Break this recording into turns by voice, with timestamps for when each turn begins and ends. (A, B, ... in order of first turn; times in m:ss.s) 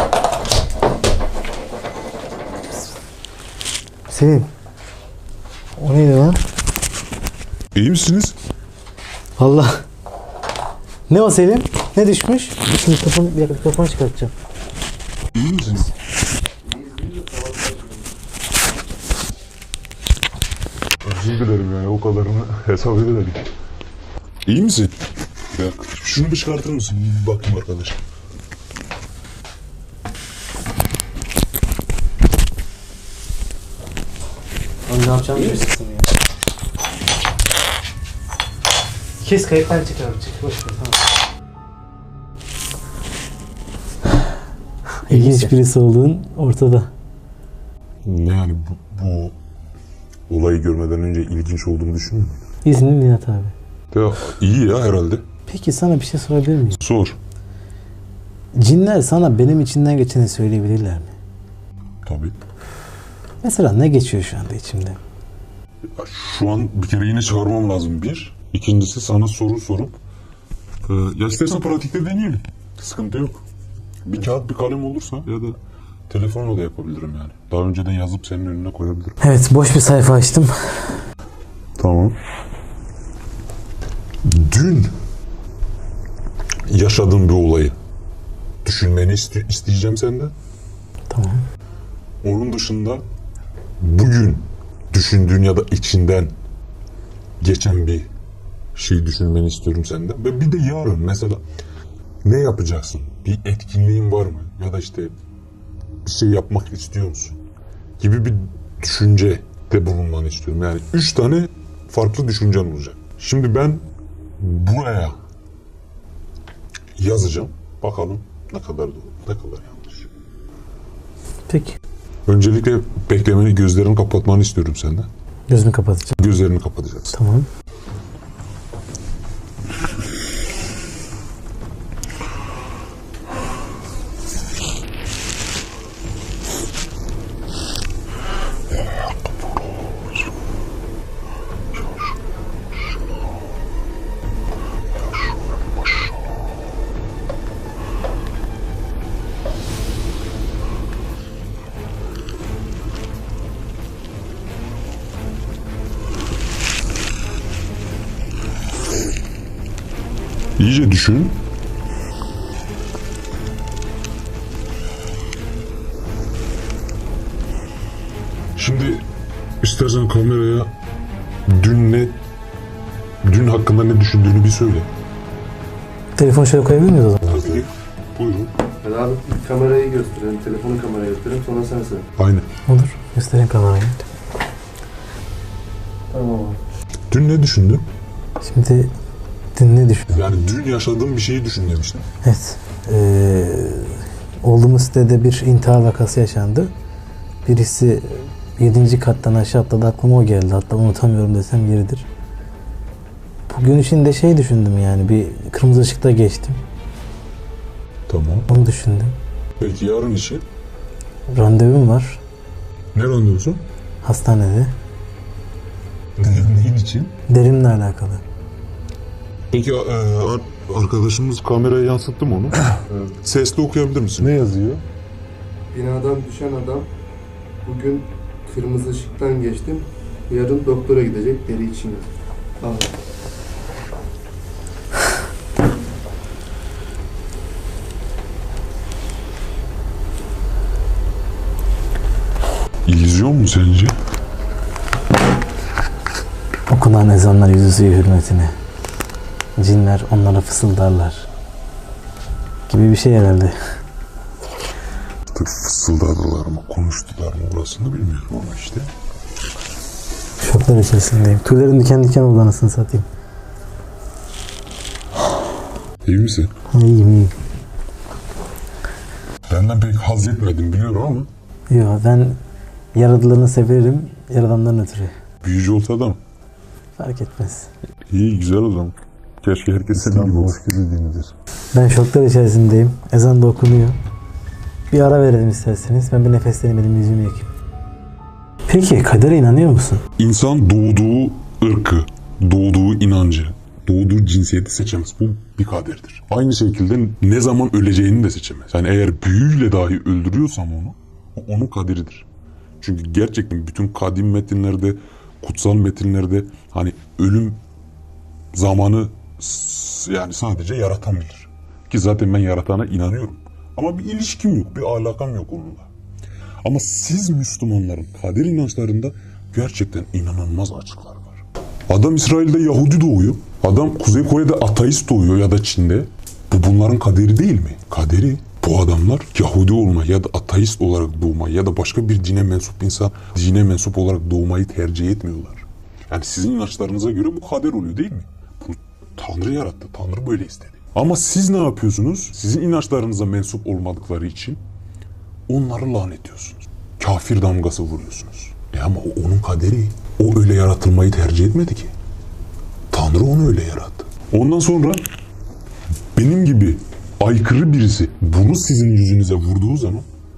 0:04.1-0:04.5 A
0:05.8-0:06.4 A
0:07.7-0:08.4 B
0:09.4-0:09.8 A
0:11.1-0:14.3 A
0:15.3-0:15.9 B
0:16.6-0:18.0 C
0:21.0-0:23.4 B
0:24.4-0:24.9 B
0:25.5-0:28.0 B
0:34.9-0:36.1 A
0:39.2-0:41.0 A
0:45.1-0:46.9 A
0:45.1-0:45.5 B
0:48.0-0:49.3 B
0:50.3-0:52.4 B
0:52.6-0:53.5 A
0:53.9-0:55.2 B
0:55.5-0:56.8 A
0:56.8-0:57.2 B
0:58.5-1:01.1 A
1:02.0-1:02.4 B
1:03.4-1:05.0 A
1:05.9-1:10.0 B
1:10.8-1:13.4 B
1:14.0-1:15.6 B
1:16.1-1:19.2 B
1:19.2-1:21.0 A
1:21.8-1:22.2 B
1:24.2-1:25.0 B
1:26.7-1:27.8 B
1:28.6-1:30.3 B
1:31.1-1:31.4 A
1:32.2-1:33.0 B
1:33.8-1:36.3 B
1:37.4-1:38.1 B
1:38.7-1:41.4 B
1:42.2-1:45.1 B
1:46.0-1:47.4 B
1:48.0-1:53.8 B
1:54.4-1:55.2 B
1:57.0-2:00.1 B
2:01.5-2:01.8 A
2:02.2-2:05.1 B
2:05.5-2:06.2 A
2:06.2-2:07.2 B
2:07.1-2:07.5 A
2:18.7-2:19.9 B
2:21.7-2:22.1 B
2:25.1-2:26.1 B
2:40.6-2:41.4 B
2:48.6-2:49.0 B
2:49.6-2:50.7 B
2:51.4-2:52.2 B
2:53.2-2:54.9 B
2:56.2-2:57.4 A
2:57.2-2:58.5 B
2:58.8-3:02.0 C
3:02.2-3:02.4 B
3:02.6-3:04.0 A
3:06.1-3:06.6 C
3:07.1-3:07.9 B
3:08.4-3:08.9 A
3:09.5-3:10.2 A
3:10.1-3:12.0 B
3:12.2-3:16.7 A
3:17.4-3:22.1 A
3:23.5-3:26.6 A
3:28.1-3:28.5 B
3:28.5-3:29.1 A
3:29.6-3:30.4 B
3:31.3-3:32.2 A
3:32.9-3:33.6 B
3:34.0-3:34.7 A
3:36.2-3:37.1 B
3:37.3-3:38.2 A
3:39.5-3:44.8 B
3:45.7-3:46.9 C
3:47.6-3:52.9 C
4:02.8-4:03.9 B
4:06.7-4:08.6 A
4:09.6-4:11.3 A
4:12.7-4:13.5 A
4:15.3-4:18.9 B
4:20.4-4:23.1 A
4:26.0-4:26.5 B
4:26.7-4:27.3 A
4:29.5-4:31.3 B
4:31.7-4:32.4 A
4:32.9-4:35.1 A
4:35.4-4:36.2 B
4:37.0-4:37.7 A
4:38.1-4:41.3 B
4:41.7-4:44.0 A
4:44.9-4:47.5 A
4:48.7-4:50.0 A
4:50.2-5:02.3 B
5:02.8-5:07.6 B
5:08.5-5:15.9 B
5:16.6-5:44.6 B
5:45.5-5:51.9 B
5:52.9-5:55.0 B
5:56.1-6:00.0 B